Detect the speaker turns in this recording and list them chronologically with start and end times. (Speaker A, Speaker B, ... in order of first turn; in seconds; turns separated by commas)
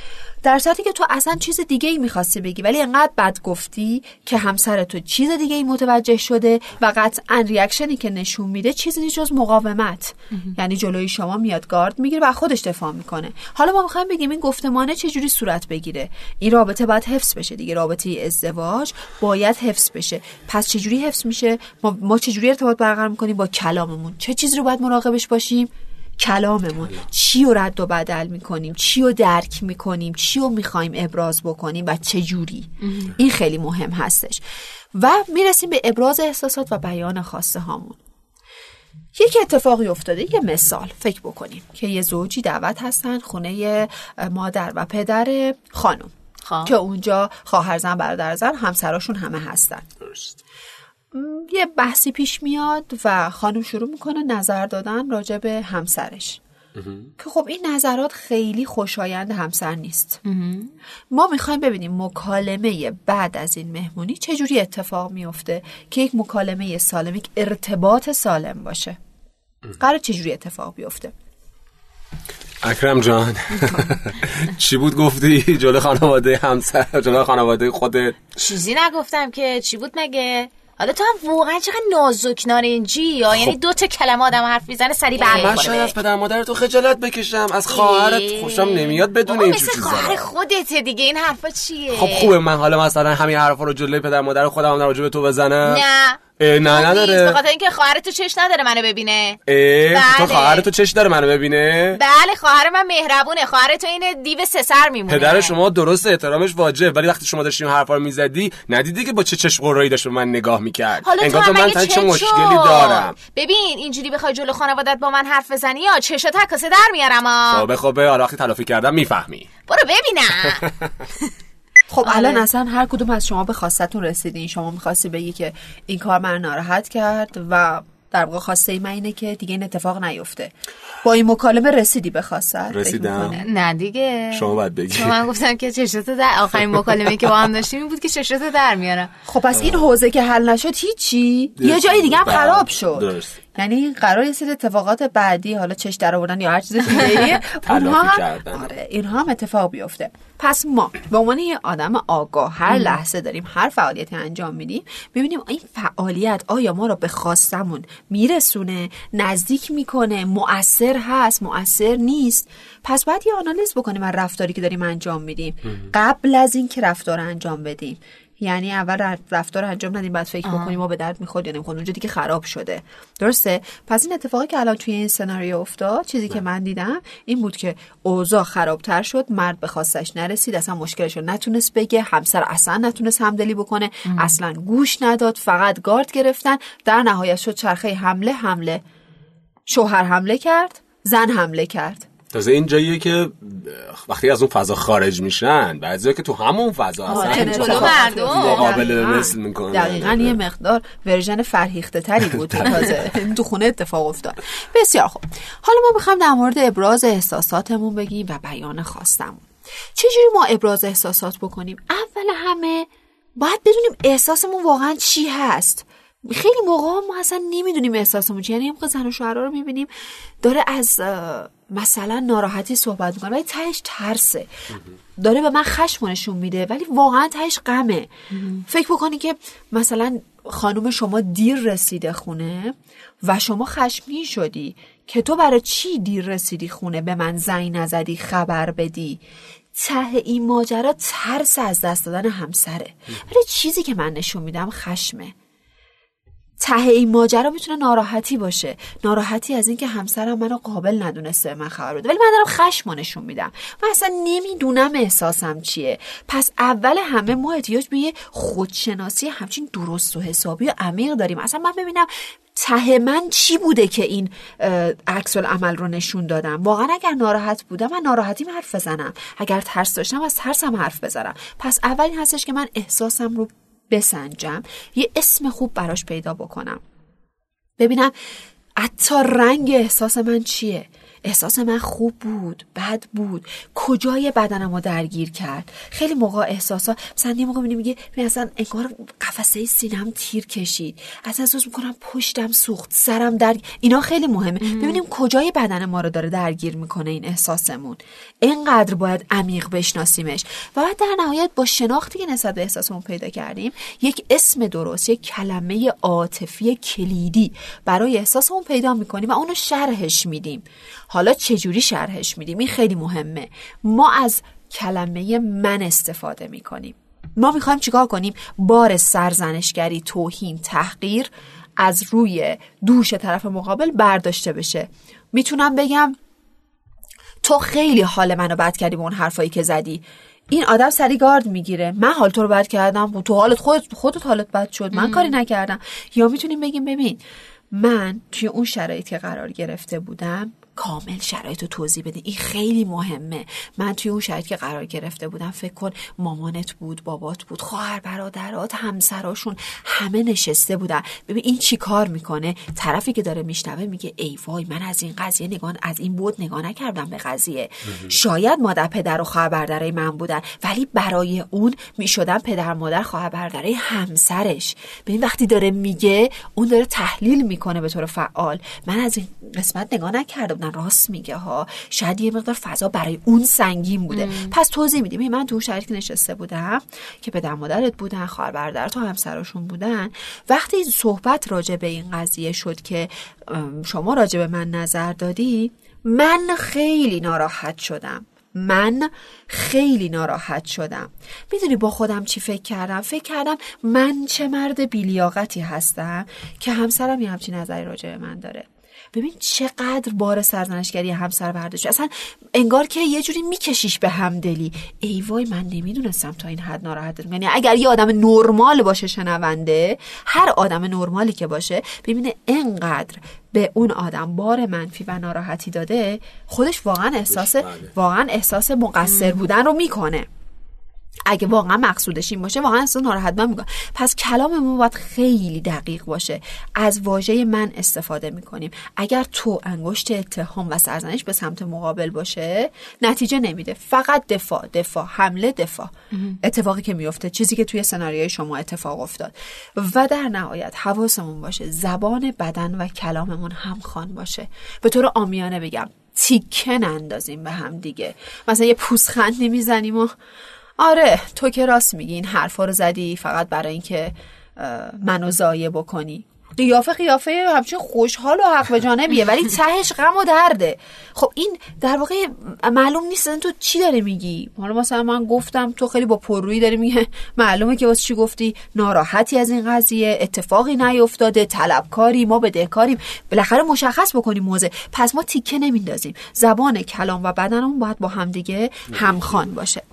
Speaker A: 0.4-34.4, Speaker B: 32.8-33.1, Speaker A: 34.9-38.0, Speaker A: 39.1-46.1, Speaker B: 46.4-46.7, Speaker A: 46.6-49.9, Speaker C: 50.0-50.4, Speaker A: 51.1-56.4, Speaker C: 56.8-57.1, Speaker A: 57.2-60.2, Speaker B: 60.2-60.7, Speaker A: 61.1-69.0, Speaker A: 69.8-71.1, Speaker C: 72.6-78.3, Speaker B: 78.3-85.9, Speaker C: 85.2-90.3, Speaker B: 87.7-92.3, Speaker C: 91.9-95.8, Speaker B: 95.6-99.4, Speaker C: 96.4-97.4, Speaker C: 99.5-102.0, Speaker B: 99.9-100.7, Speaker B: 101.9-105.5, Speaker C: 105.1-113.2, Speaker B: 111.0-117.6, Speaker C: 117.5-119.5, Speaker B: 119.7-120.7, Speaker A: 121.9-133.5, Speaker B: 122.0-122.4, Speaker C: 132.7-133.4, Speaker B: 133.3-139.1, Speaker C: 134.3-135.2, Speaker A: 139.2-188.8, Speaker C: 139.5-139.8, Speaker C: 141.6-143.4, Speaker C: 147.4-148.7, Speaker B: 152.7-152.9, Speaker B: 170.4-170.8, Speaker B: 184.1-184.3, Speaker A: 189.7-192.1, Speaker C: 192.3-200.4, Speaker A: 197.1-219.9, Speaker B: 197.1-198.8, Speaker C: 202.5-203.0, Speaker A: 220.4-224.5, Speaker A: 225.2-228.1, Speaker B: 228.3-228.6, Speaker A: 228.7-239.2, Speaker A: 239.7-245.3, Speaker A: 246.6-276.8, Speaker A: 277.8-278.1, Speaker A: 278.8-326.1, Speaker B: 294.6-295.0, Speaker A: 327.4-337.2, Speaker B: 334.9-335.3, Speaker A: 337.7-420.3, Speaker B: 374.1-374.5, Speaker C: 417.3-417.9, Speaker A: 421.2-450.1, Speaker A: 450.8-479.8, Speaker C: 478.9-479.3